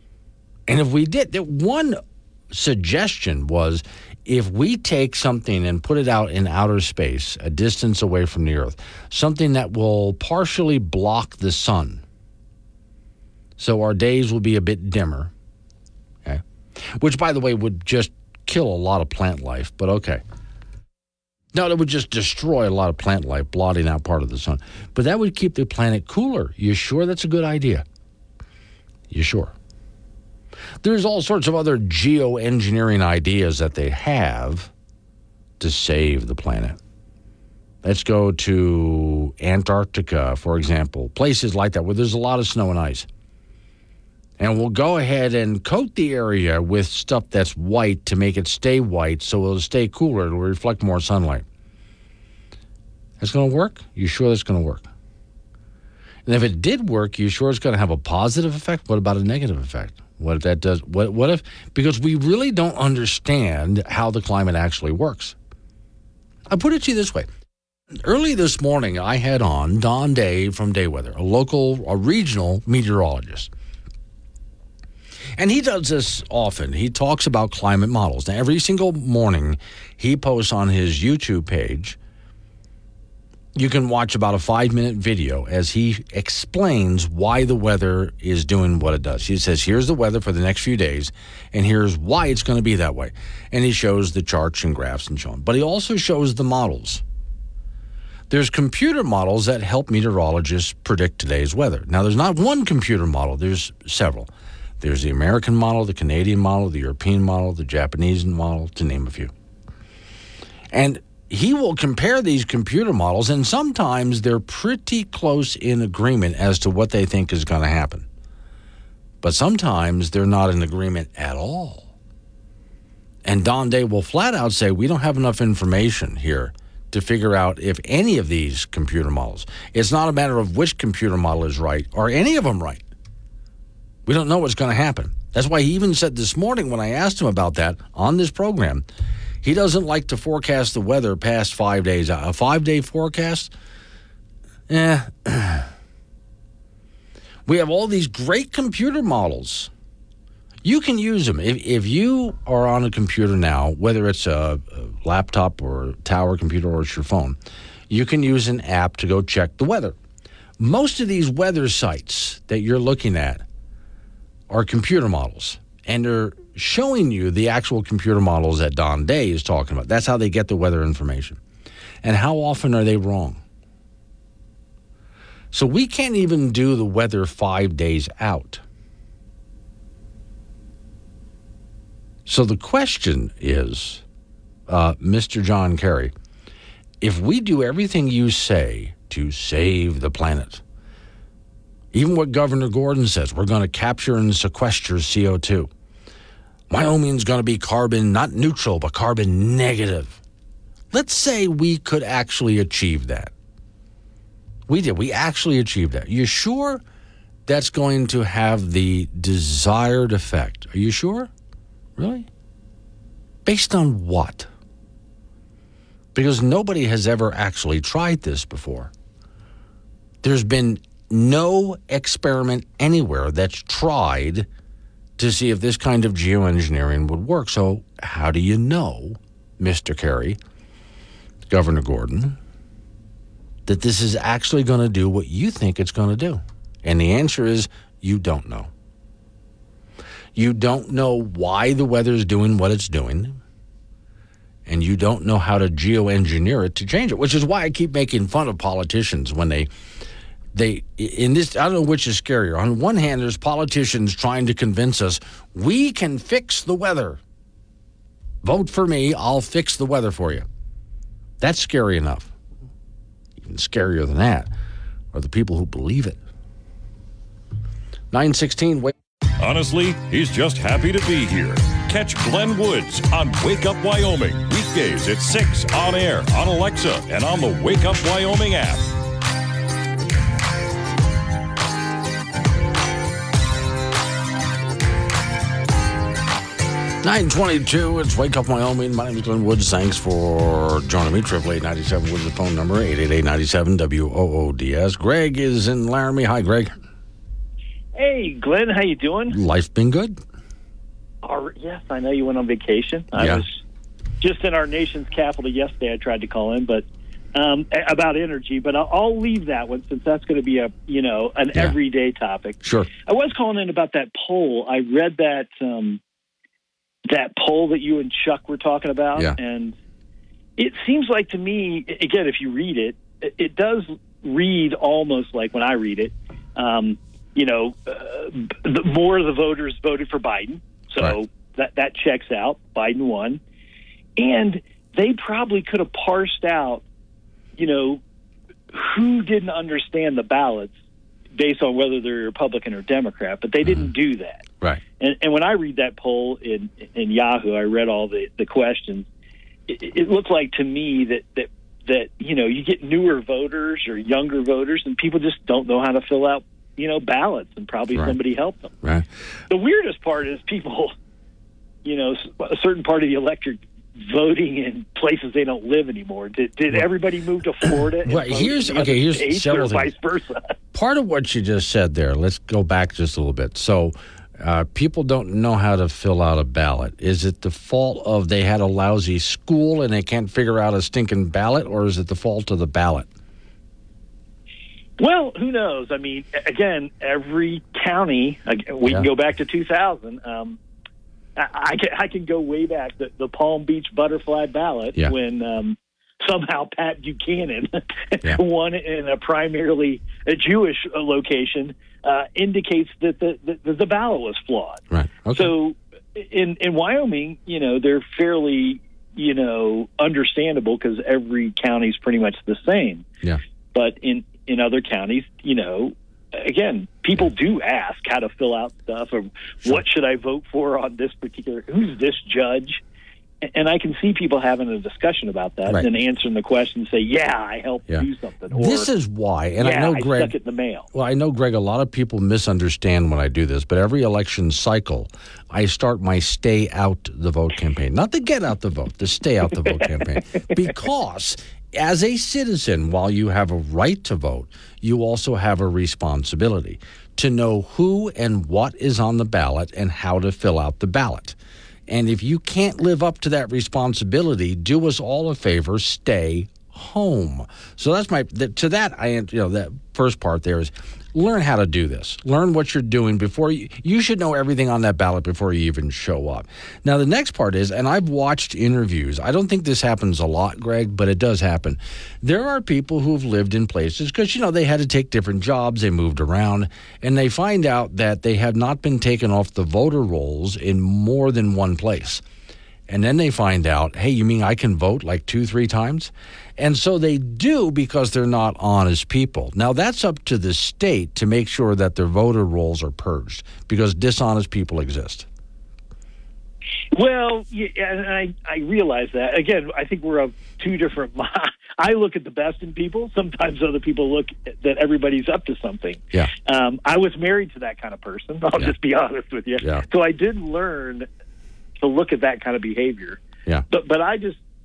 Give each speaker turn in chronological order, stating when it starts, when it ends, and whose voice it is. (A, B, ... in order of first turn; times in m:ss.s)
0:00.7-0:02.0 A
0:02.5-0:12.0 A
0:13.6-0:15.3 A
0:17.0-0:20.2 A
0:21.5-0:27.8 A
0:29.1-0:29.5 A
0:30.8-0:34.7 A
0:35.6-0:36.8 A
0:37.8-0:43.1 A
0:44.4-0:51.4 A
0:53.2-0:54.9 A
0:56.2-1:05.3 A
1:06.5-1:07.3 A
1:08.0-1:13.5 A
1:15.4-1:22.0 A
1:23.5-1:37.0 A
1:38.3-1:49.3 A
1:50.7-1:58.0 A
1:59.2-2:01.9 A
2:03.2-2:12.8 A
2:14.0-2:18.8 A
2:19.4-2:23.5 A
2:24.7-2:25.7 A
2:27.4-2:29.7 A
2:30.6-2:37.4 A
2:37.9-2:40.0 A
2:40.6-2:43.4 A
2:44.5-2:51.4 A
2:52.0-2:53.4 A
2:55.5-2:58.6 A
3:02.2-3:04.0 A
3:04.7-3:06.1 A
3:07.0-3:10.6 A
3:11.9-3:15.7 A
3:16.7-3:20.2 A
3:20.9-3:23.3 A
3:24.7-3:26.8 A
3:27.5-3:31.3 A
3:32.0-3:32.3 A
3:33.4-3:34.5 A
3:36.1-3:38.9 A
3:40.2-3:44.5 A
3:45.2-3:50.4 A
3:51.5-3:52.4 A
3:53.6-3:58.7 A
4:00.3-4:03.4 A
4:04.7-4:09.7 A
4:10.5-4:17.2 A
4:18.4-4:20.4 A
4:21.4-4:22.3 A
4:23.4-4:24.5 A
4:25.1-4:26.2 A
4:28.1-4:28.9 A
4:29.4-4:38.9 B
4:47.0-4:56.8 A
4:57.9-4:59.4 C
4:59.3-5:00.2 A
5:01.2-5:03.6 C
5:03.1-5:03.4 A
5:04.2-5:16.0 C
5:12.6-5:12.9 A
5:17.1-5:19.7 C
5:20.6-5:33.4 C
5:34.2-5:36.8 C
5:37.6-5:38.0 C
5:38.7-5:40.7 C
5:41.4-5:44.4 C
5:43.6-5:43.9 A
5:45.0-5:49.1 C
5:49.7-5:58.7 C
5:59.5-6:00.9 C
6:01.8-6:10.5 C
6:07.6-6:09.9 A
6:10.7-6:23.1 A
6:25.0-6:30.6 C
6:31.4-6:53.1 C
6:44.9-6:45.5 A
6:53.7-7:02.8 C
7:03.5-7:08.9 C
7:07.9-7:10.3 A
7:09.6-7:10.9 C
7:10.9-7:31.4 A
7:31.9-8:02.2 A
8:02.9-8:15.2 A
8:16.9-8:31.1 C
8:29.6-8:29.8 A
8:31.8-8:34.4 C